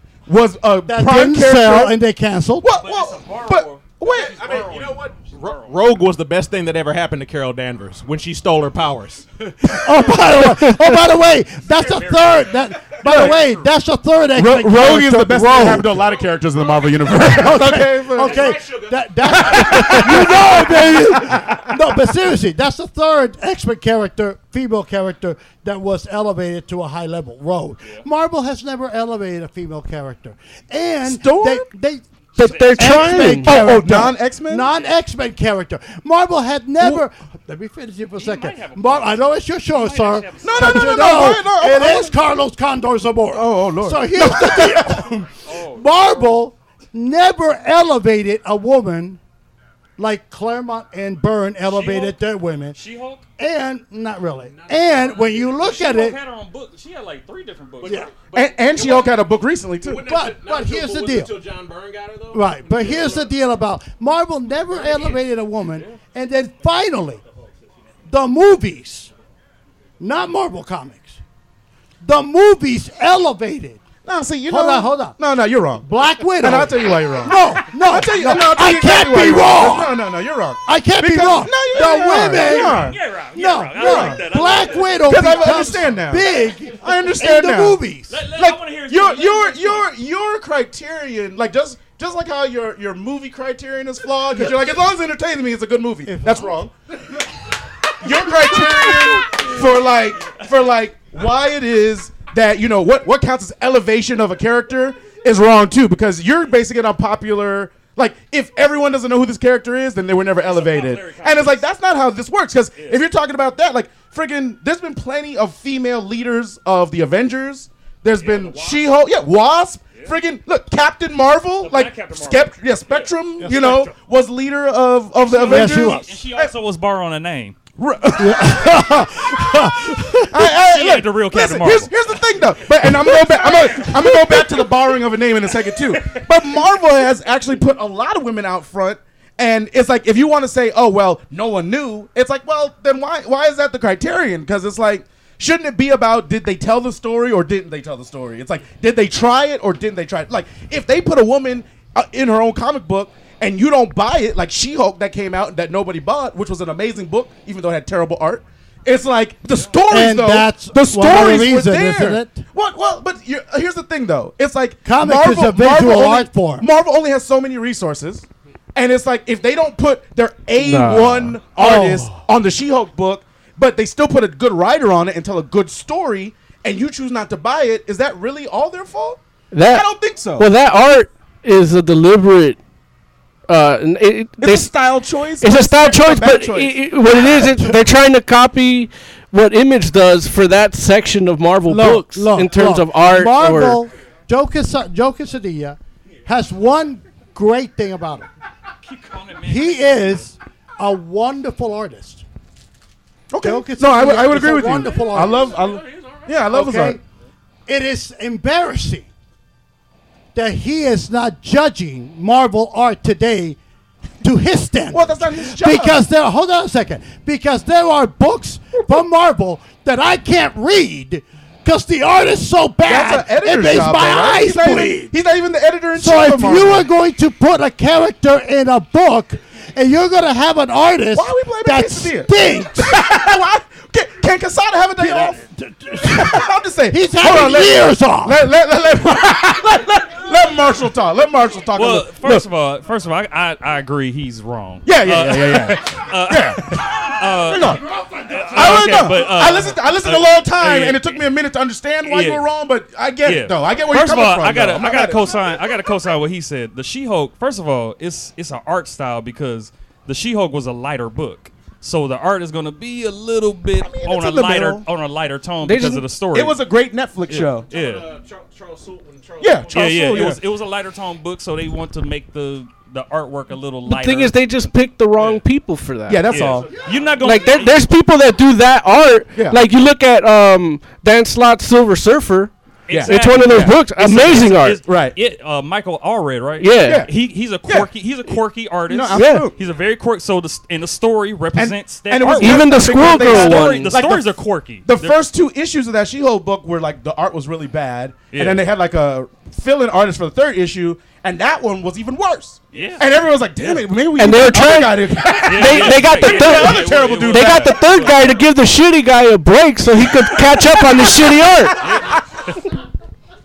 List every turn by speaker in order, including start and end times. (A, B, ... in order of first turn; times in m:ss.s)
0:00.3-0:02.0 A
0:00.9-0:02.7 B
0:02.6-0:04.8 A
0:02.7-0:05.8 C
0:04.0-0:09.5 D
0:09.7-0:15.9 B
0:11.7-0:12.5 C
0:13.0-0:13.4 A
0:13.1-0:13.5 C
0:14.3-0:18.6 A
0:15.9-0:17.2 D
0:17.2-0:49.2 B
0:18.1-0:20.0 D
0:19.3-0:21.7 A
0:31.0-0:31.7 A
0:32.4-0:33.8 E
0:32.4-0:33.3 C
0:33.4-0:34.7 A
0:38.2-0:41.3 C
0:40.4-0:42.2 A
0:43.3-0:45.2 A
0:45.4-0:46.4 C
0:50.0-0:52.8 B
0:51.7-0:52.2 C
0:52.7-0:53.2 C
0:53.4-0:56.2 B
0:54.3-0:55.8 D
0:55.5-0:58.1 C
0:57.8-0:58.1 B
0:57.8-1:03.3 D
0:58.3-1:00.0 A
1:00.0-1:01.4 B
1:02.3-1:07.2 B
1:08.1-1:09.1 B
1:10.0-1:11.2 B
1:12.0-1:13.8 B
1:14.0-1:23.0 A
1:14.5-1:15.2 B
1:15.8-1:20.0 B
1:20.6-1:28.2 B
1:21.8-1:25.7 C
1:23.8-1:24.2 A
1:25.0-1:27.8 A
1:28.1-1:29.9 C
1:28.3-1:36.7 A
1:36.0-1:36.5 B
1:38.0-2:06.5 A
1:50.4-1:51.6 C
1:52.8-1:53.0 C
1:58.1-1:58.9 C
2:01.6-2:03.1 C
2:03.4-2:03.9 B
2:05.2-2:07.6 C
2:05.4-2:06.0 B
2:07.8-2:09.1 A
2:08.2-2:10.3 B
2:10.3-3:00.5 A
2:10.4-2:11.9 C
2:13.1-2:14.3 C
2:39.9-2:42.4 B
2:44.8-2:46.7 B
2:50.6-2:51.4 E
2:51.5-2:52.2 B
2:59.5-3:02.6 E
3:03.5-3:04.7 E
3:04.4-3:07.2 A
3:05.4-3:13.8 E
3:11.7-3:18.3 B
3:18.8-3:20.3 C
3:19.5-3:22.2 B
3:23.3-3:27.0 A
3:23.4-3:25.6 B
3:25.6-3:26.3 D
3:26.5-3:27.0 B
3:27.7-3:29.1 B
3:30.3-3:33.6 B
3:34.2-3:45.1 B
3:34.9-3:36.0 A
3:42.8-3:46.9 A
3:46.0-3:53.0 B
3:51.1-3:55.4 A
3:55.0-3:58.4 B
3:56.0-4:02.4 A
4:01.7-4:11.2 C
4:04.8-4:07.8 A
4:07.5-4:09.1 B
4:08.5-4:15.6 A
4:12.0-4:12.4 C
4:13.2-4:26.6 C
4:23.8-4:24.8 A
4:25.6-4:26.1 E
4:26.3-4:27.7 A
4:27.3-4:28.1 C
4:27.4-4:30.4 D
4:29.4-4:30.4 A
4:29.7-4:35.4 C
4:33.8-4:36.4 E
4:36.1-4:36.7 A
4:36.3-4:37.8 C
4:36.5-4:37.4 D
4:37.2-4:44.8 E
4:39.3-4:39.6 A
4:42.9-4:55.2 C
4:42.9-4:43.8 A
4:44.8-4:45.2 A
4:46.6-4:47.1 E
4:46.8-4:47.1 A
4:47.6-4:48.4 A
4:48.9-4:49.5 A
4:49.1-4:49.5 E
4:51.5-5:08.1 A
4:52.3-4:54.0 E
4:58.3-4:58.6 C
5:02.7-5:03.8 C
5:04.1-5:11.8 E
5:05.4-5:08.2 C
5:11.8-5:12.6 C